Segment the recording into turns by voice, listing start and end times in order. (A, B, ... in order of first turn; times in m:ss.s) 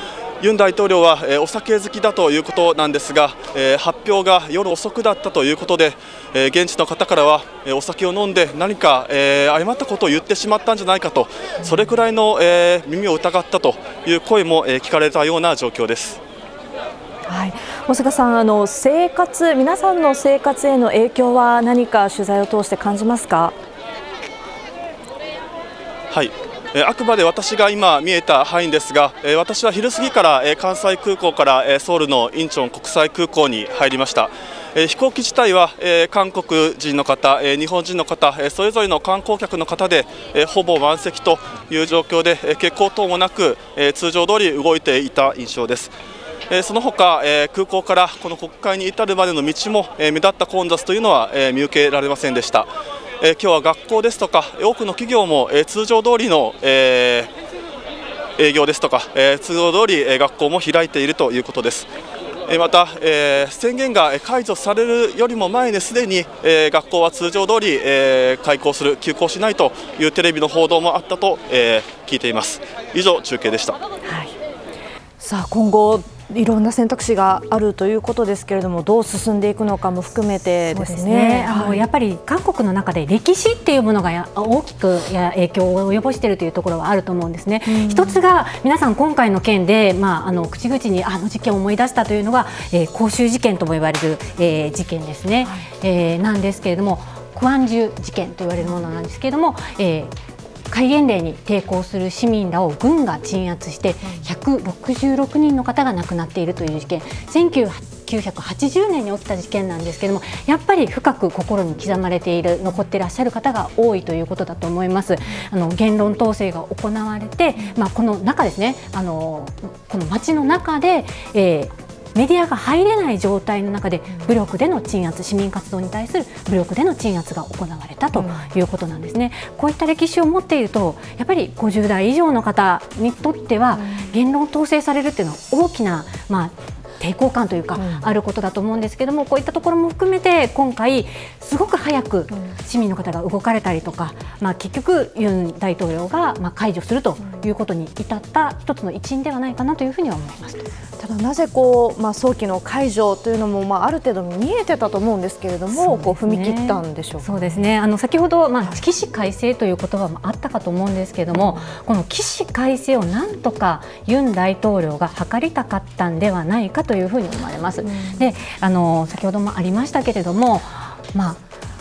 0:00.4-0:16.2 A
0:17.3-0:23.6 B
0:26.1-0:45.9 A
0:46.5-0:57.3 A
0:58.4-1:01.9 A
1:02.5-1:13.8 A
1:14.0-1:14.3 B
1:15.2-1:21.8 B
1:20.7-1:40.1 C
1:27.7-1:28.2 B
1:40.7-2:30.6 C
2:31.0-2:37.4 B
2:35.7-2:51.4 C
2:41.3-2:41.6 B